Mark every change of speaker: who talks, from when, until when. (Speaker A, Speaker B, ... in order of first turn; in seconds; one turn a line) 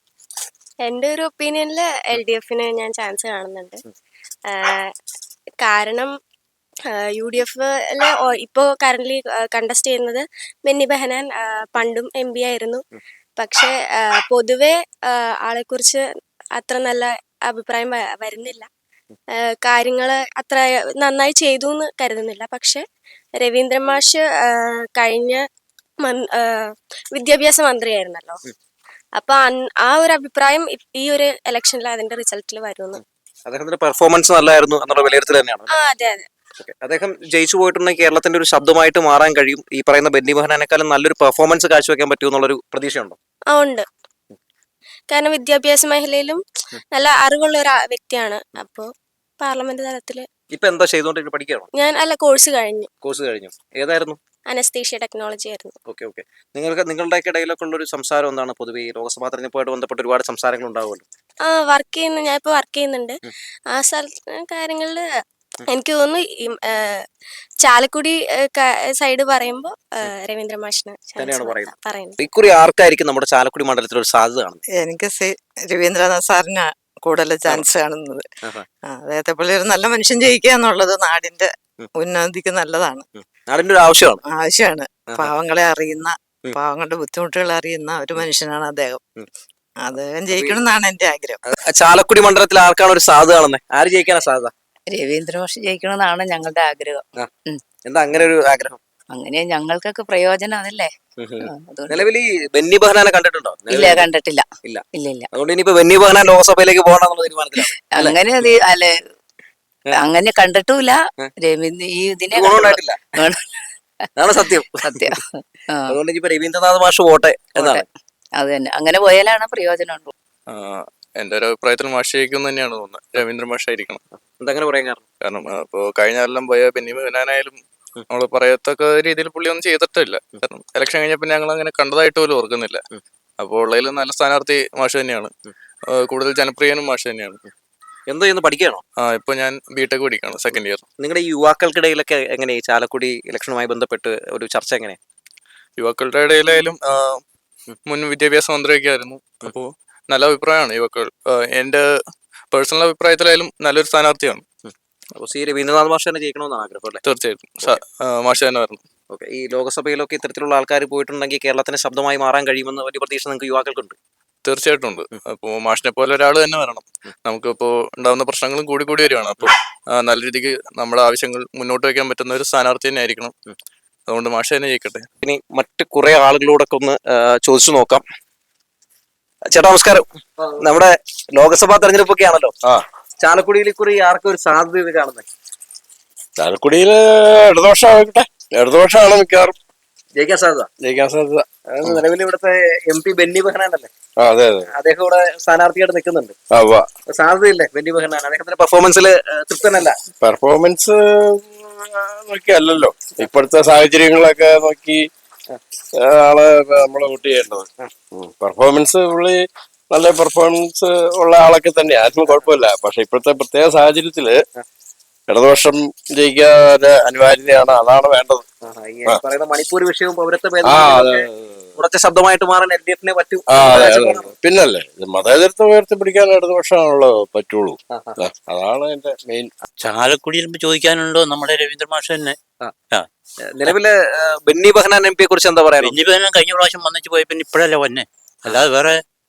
Speaker A: 0.8-3.8
Speaker A: 4.5-4.9
Speaker A: 5.6-6.1
Speaker A: 6.9-12.8
Speaker A: 13.3-18.7
Speaker A: 19.3-22.9
Speaker A: 23.4-25.4
Speaker A: 26.0-28.4
Speaker A: 29.1-33.0
Speaker B: 33.5-35.7
Speaker A: 35.7-36.3
Speaker B: 36.6-43.2
Speaker A: 43.5-43.9
Speaker A: 45.1-46.4
Speaker A: 46.9-50.3
Speaker B: 50.5-51.7
Speaker A: 51.7-52.9
Speaker B: 53.0-54.2
Speaker A: 54.5-55.8
Speaker B: 55.9-61.0
Speaker A: 61.4-65.1
Speaker A: 65.7-67.0
Speaker A: 67.6-72.2
Speaker B: 71.2-74.6
Speaker C: 74.7-78.2
Speaker C: 78.8-83.0
Speaker B: 83.2-84.2
Speaker C: 84.2-89.0
Speaker C: 89.8-91.4
Speaker B: 90.3-90.6
Speaker B: 91.5-94.5
Speaker D: 94.9-97.6
Speaker B: 97.8-98.8
Speaker D: 99.1-102.0
Speaker B: 101.2-104.1
Speaker D: 103.7-105.3
Speaker B: 104.6-108.2
Speaker D: 107.9-109.0
Speaker D: 109.9-116.0
Speaker B: 112.3-113.0
Speaker B: 114.2-115.1
Speaker B: 115.9-117.8
Speaker D: 117.5-120.1
Speaker E: 120.5-124.0
Speaker B: 124.4-125.0
Speaker E: 125.2-132.8
Speaker E: 133.4-135.3
Speaker E: 136.0-137.4
Speaker B: 138.1-138.8
Speaker E: 139.0-140.8
Speaker B: 141.0-145.0
Speaker E: 145.8-147.2
Speaker E: 147.9-151.8
Speaker E: 152.5-154.4
Speaker B: 154.6-157.0
Speaker E: 157.0-158.8
Speaker B: 159.1-163.9
Speaker E: 164.4-173.3
Speaker E: 174.1-175.1
Speaker B: 175.2-178.0
Speaker B: 179.5-180.0
Speaker B: 180.6-182.5
Speaker B: 183.2-185.2
Speaker F: 186.4-189.5
Speaker B: 190.2-190.7
Speaker F: 190.8-192.0
Speaker B: 191.8-193.9
Speaker F: 194.2-194.7
Speaker B: 194.7-196.3
Speaker F: 196.5-196.9
Speaker B: 197.1-200.0
Speaker F: 200.2-205.0
Speaker F: 206.0-214.4
Speaker F: 215.3-218.4
Speaker B: 218.6-224.3
Speaker F: 220.6-221.4
Speaker F: 223.5-229.5
Speaker B: 227.9-228.2
Speaker G: 229.8-232.3
Speaker B: 233.6-235.9
Speaker G: 235.8-239.0